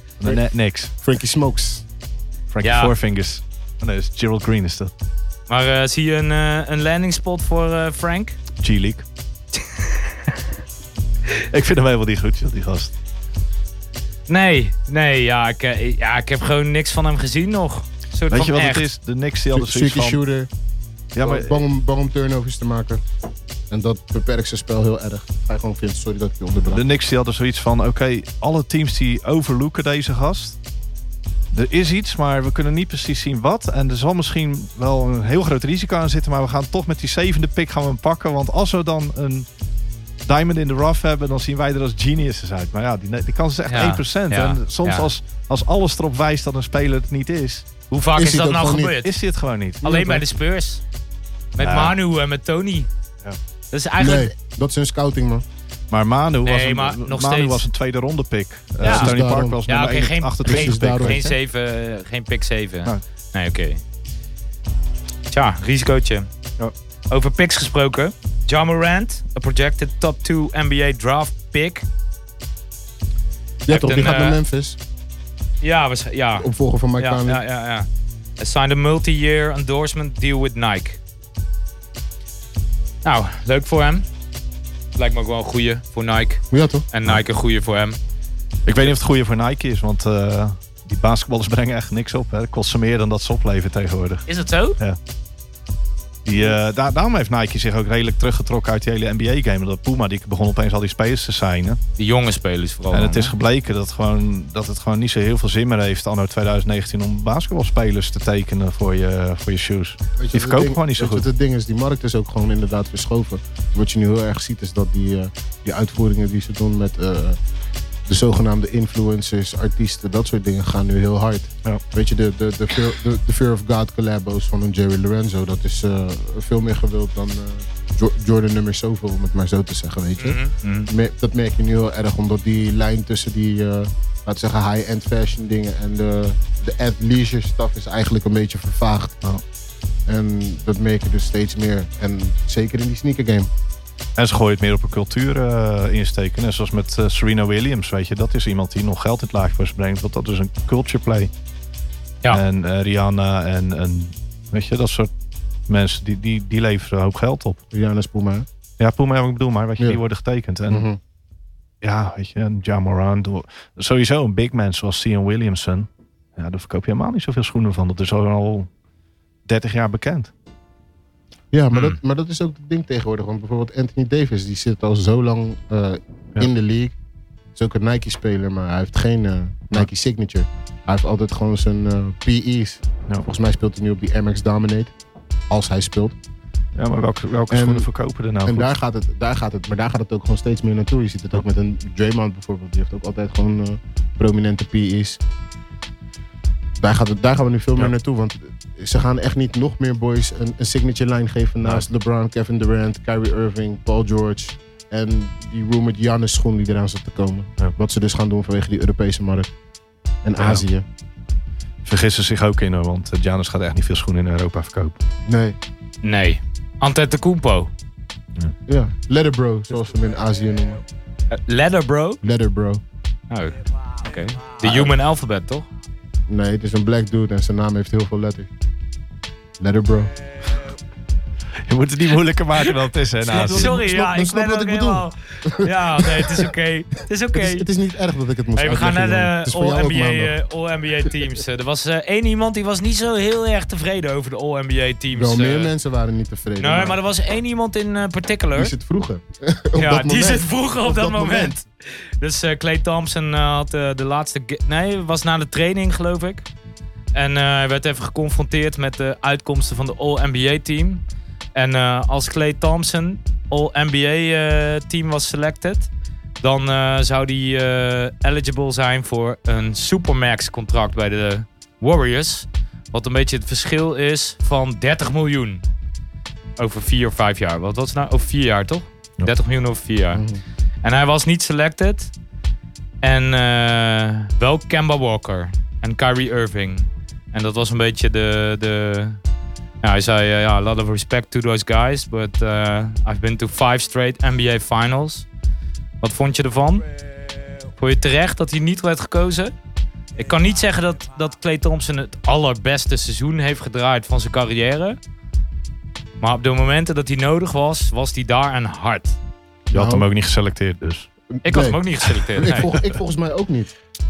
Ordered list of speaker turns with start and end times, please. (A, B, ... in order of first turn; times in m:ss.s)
0:00.2-0:00.9 A
0:01.0-0:01.8 B
0:02.5-0:04.9 A
0:02.6-0:02.9 C
0:05.5-0:08.4 C
0:08.6-0:09.0 A
0:11.5-0:12.9 A
0:14.3-0:18.9 C
0:18.3-0:20.2 A
0:19.5-0:20.5 B
0:21.2-0:21.6 A
0:21.2-0:23.0 B
0:23.7-0:26.8 B
0:26.7-0:30.6 A
0:31.5-0:39.5 A
0:40.2-0:47.6 A
0:43.7-0:45.1 C
0:47.9-0:49.1 C
0:48.2-0:49.0 B
0:49.0-0:50.2 A
0:49.8-0:50.8 C
0:51.6-0:52.9 C
0:51.6-0:52.0 A
0:53.7-0:54.3 C
0:54.0-0:55.4 B
0:55.9-1:01.3 A
0:56.5-0:57.7 C
0:58.8-0:59.6 B
0:58.8-0:59.1 C
0:59.7-1:03.8 C
1:00.4-1:01.3 B
1:05.3-1:06.3 C
1:07.1-1:11.9 C
1:13.7-1:14.8 B
1:13.7-1:14.4 C
1:15.6-1:17.9 C
1:16.4-1:17.4 B
1:18.4-1:21.0 C
1:23.0-1:24.1 C
1:25.0-1:28.0 C
1:26.5-1:26.9 B
1:28.7-1:34.3 A
1:34.3-1:34.8 C
1:36.2-1:41.8 A
1:42.0-1:43.3 C
1:42.9-1:51.2 A
1:50.2-1:57.4 B
1:58.1-2:19.2 B
2:10.2-2:10.9 C
2:20.1-2:23.5 B
2:24.2-2:31.3 A
2:32.3-2:35.1 A
2:35.7-2:37.6 A
2:37.7-2:38.5 B
2:38.8-2:40.9 A
2:40.7-2:41.0 B
2:41.8-2:48.7 A
2:49.5-2:50.3 A
2:51.5-2:57.0 B
2:51.7-2:52.0 C
2:57.6-3:04.9 B
3:05.5-3:06.2 B
3:06.8-3:08.7 A
3:07.5-3:07.9 B
3:08.4-3:15.2 B
3:16.8-3:29.5 B
3:30.2-3:30.8 B
3:30.4-3:30.6 A
3:31.8-3:35.0 A
3:35.3-3:35.6 B
3:36.0-3:37.7 C
3:38.7-3:40.8 B
3:41.3-3:42.2 C
3:42.2-3:42.8 B
3:43.3-3:45.7 C
3:44.6-3:44.9 B
3:46.3-3:48.5 B
3:49.6-3:50.1 B
3:51.7-3:53.8 A
3:53.3-3:57.7 C
3:53.4-3:56.5 B
3:57.4-4:00.4 B
3:58.6-4:05.7 C
4:05.1-4:07.0 B
4:06.6-4:08.7 C
4:08.5-4:11.6 B
4:09.8-4:16.5 C
4:17.1-4:21.0 C
4:21.6-4:35.7 C
4:36.6-4:40.2 C
4:40.1-4:40.4 B
4:40.8-4:42.1 C
4:43.0-4:49.2 C
4:49.8-4:55.3 C
4:56.0-4:56.8 C
4:57.8-4:59.5 C
5:00.2-5:05.0 C
5:06.2-5:09.2 C
5:09.7-5:10.1 B
5:09.7-5:11.1 A
5:11.4-5:13.7 B
5:11.4-5:12.7 C